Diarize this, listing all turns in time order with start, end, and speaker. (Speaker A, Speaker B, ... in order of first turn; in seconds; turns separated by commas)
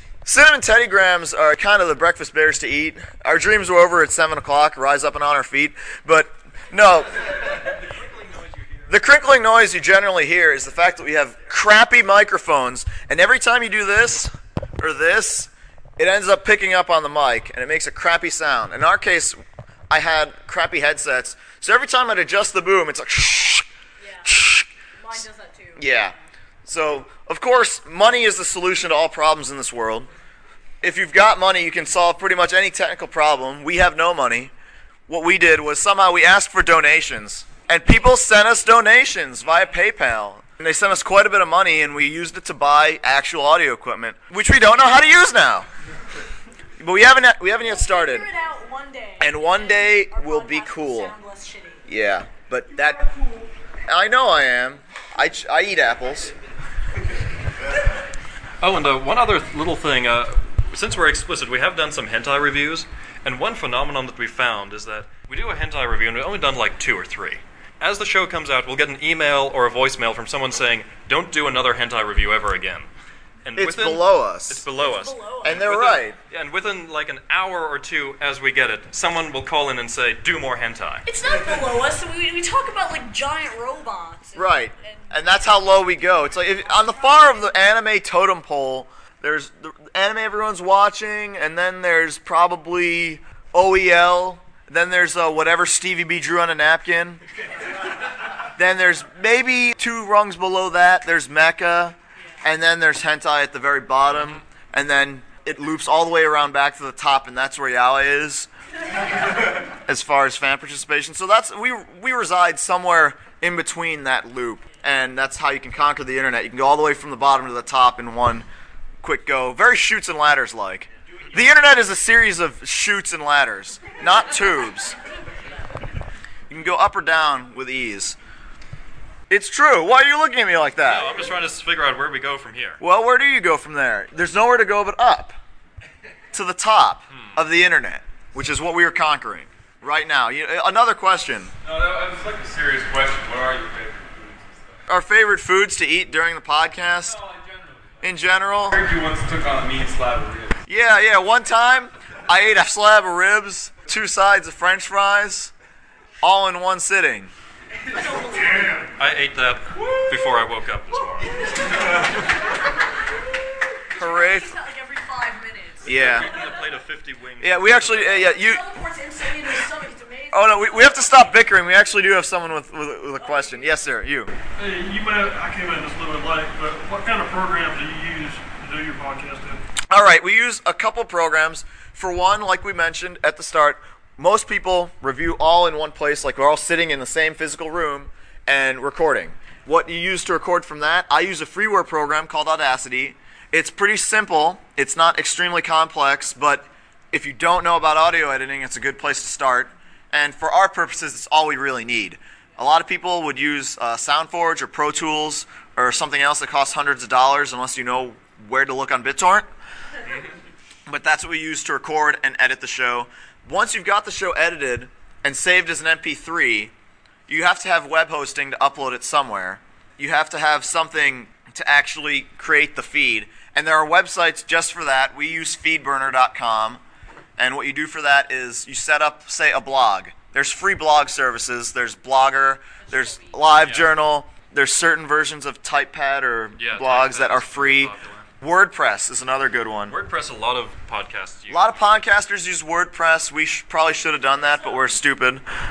Speaker A: 0.3-7.2, Speaker B: 8.3-8.6, Speaker A: 8.9-19.4, Speaker A: 19.9-23.6, Speaker C: 24.0-24.3, Speaker A: 24.2-24.7, Speaker C: 25.0-26.2, Speaker A: 25.8-26.1, Speaker A: 26.6-30.1, Speaker A: 30.8-34.5, Speaker A: 35.1-45.7, Speaker A: 46.8-48.3, Speaker C: 47.6-51.9, Speaker A: 49.2-51.1, Speaker A: 51.9-53.1, Speaker A: 53.9-56.3, Speaker D: 58.6-72.9, Speaker D: 73.5-81.1, Speaker A: 73.6-74.7, Speaker C: 74.8-75.7, Speaker A: 75.4-76.2, Speaker C: 81.1-85.2, Speaker A: 84.3-97.2, Speaker C: 86.6-87.5, Speaker A: 98.6-108.5, Speaker A: 109.9-118.5, Speaker A: 119.0-125.0, Speaker A: 126.5-128.2, Speaker A: 129.3-131.1, Speaker D: 130.8-132.8, Speaker A: 132.8-135.4, Speaker A: 136.3-141.5, Speaker D: 137.1-137.4, Speaker B: 141.6-144.7, Speaker A: 144.9-147.2, Speaker B: 147.1-147.9, Speaker A: 148.0-148.8, Speaker B: 148.7-150.6, Speaker A: 150.7-155.5, Speaker A: 156.2-157.3, Speaker C: 157.9-158.8, Speaker D: 158.9-162.1, Speaker C: 163.8-166.4, Speaker A: 163.9-164.6, Speaker A: 165.8-166.3, Speaker D: 165.9-168.3, Speaker A: 167.4-168.6, Speaker C: 168.2-171.4, Speaker A: 170.3-174.3, Speaker C: 173.2-173.7, Speaker E: 174.6-179.6, Speaker A: 179.9-209.5, Speaker A: 210.9-216.7, Speaker A: 217.3-226.8, Speaker A: 227.4-239.9, Speaker C: 232.8-233.7, Speaker D: 233.6-233.9, Speaker D: 236.6-238.3, Speaker D: 239.9-241.7, Speaker A: 241.5-245.4